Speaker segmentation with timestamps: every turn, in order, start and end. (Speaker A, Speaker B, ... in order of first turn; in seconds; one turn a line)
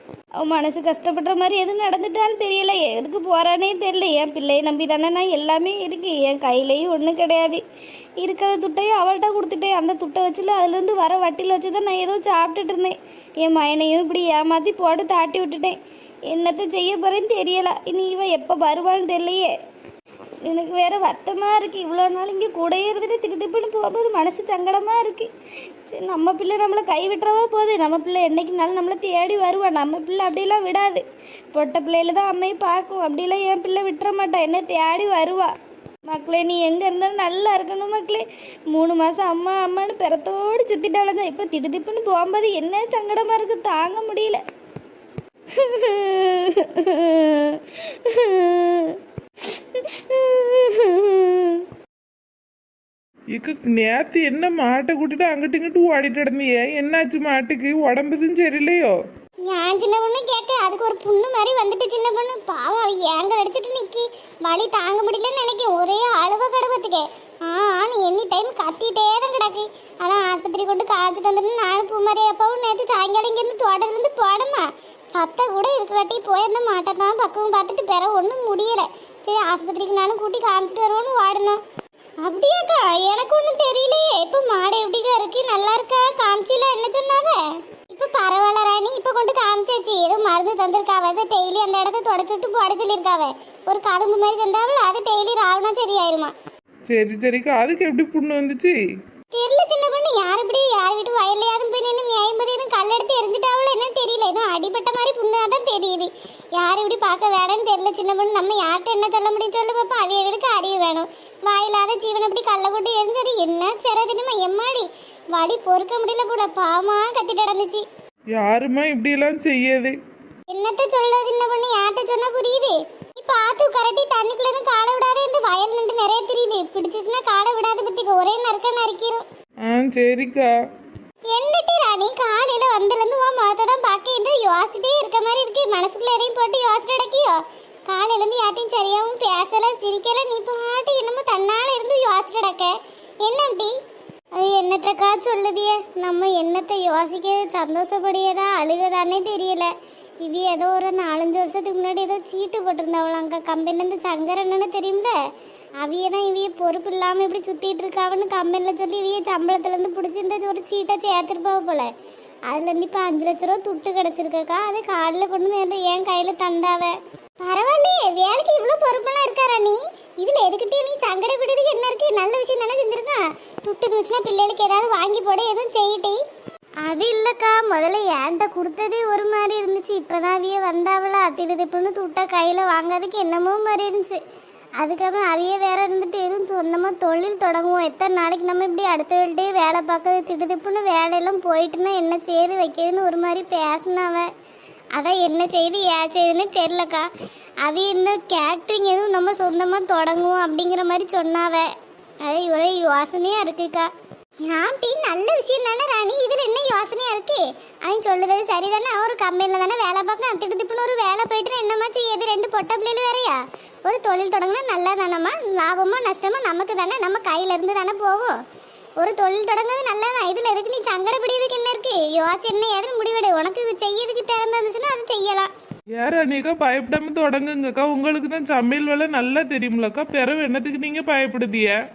Speaker A: 0.4-7.6
Speaker A: 8.2-15.8
Speaker A: 16.3-19.5
Speaker A: 20.4-25.3
Speaker A: 25.9-31.0
Speaker A: 31.5-35.5
Speaker A: 36.1-44.4
Speaker A: 45.6-48.9
Speaker A: 49.9-51.6
Speaker B: 53.3-58.9
Speaker C: 59.5-81.6
Speaker C: 82.2-87.4
Speaker C: 87.9-96.3
Speaker B: 96.9-98.8
Speaker C: 99.3-117.8
Speaker B: 118.3-119.9
Speaker C: 120.5-129.2
Speaker B: 129.6-130.5
Speaker C: 131.3-137.4
Speaker C: 137.9-143.7
Speaker C: 144.4-149.7
Speaker A: 149.0-149.5
Speaker C: 150.2-155.1
Speaker C: 155.8-161.9
Speaker C: 162.5-176.2
Speaker C: 176.8-184.2
Speaker C: 184.8-194.3
Speaker C: 195.0-197.1
Speaker C: 197.6-201.7
Speaker C: 202.2-203.9
Speaker C: 204.5-218.3
Speaker C: 219.0-225.5
Speaker B: 226.0-231.7